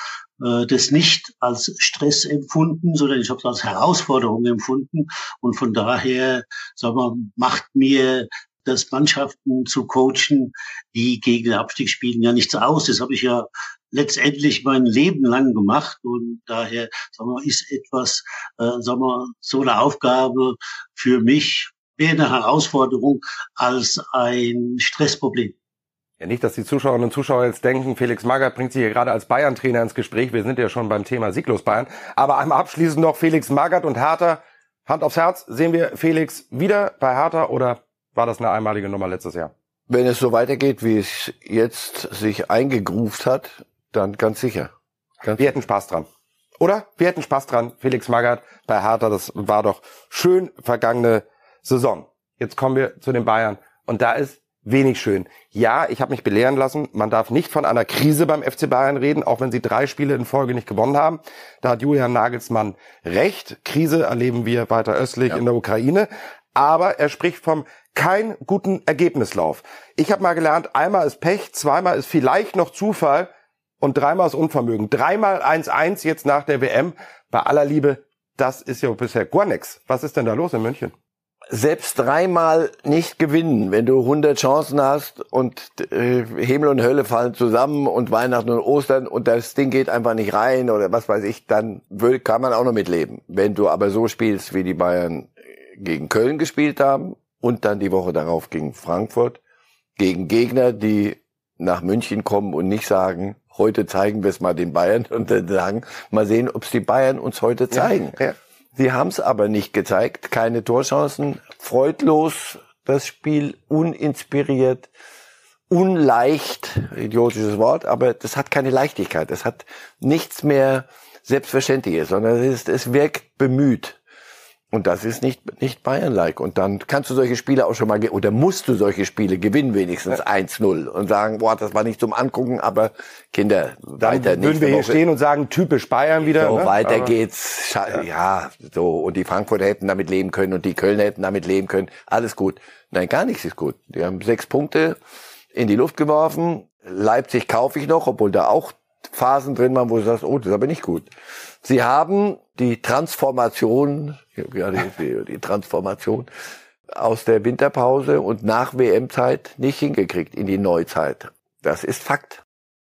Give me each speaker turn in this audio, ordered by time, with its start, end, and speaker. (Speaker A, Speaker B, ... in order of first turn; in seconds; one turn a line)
Speaker A: 0.4-25.5
Speaker B: 26.2-39.5
Speaker C: 39.9-44.7
Speaker C: 45.2-45.6
Speaker B: 45.4-46.0
Speaker B: 46.6-73.3
Speaker B: 73.8-80.9
Speaker C: 81.5-99.4
Speaker C: 100.0-108.2
Speaker B: 107.7-108.3
Speaker C: 108.8-114.9
Speaker C: 115.7-124.0
Speaker C: 124.7-135.0
Speaker B: 134.0-137.1
Speaker C: 136.2-145.0
Speaker C: 145.5-151.1
Speaker C: 151.6-156.3
Speaker C: 156.9-162.4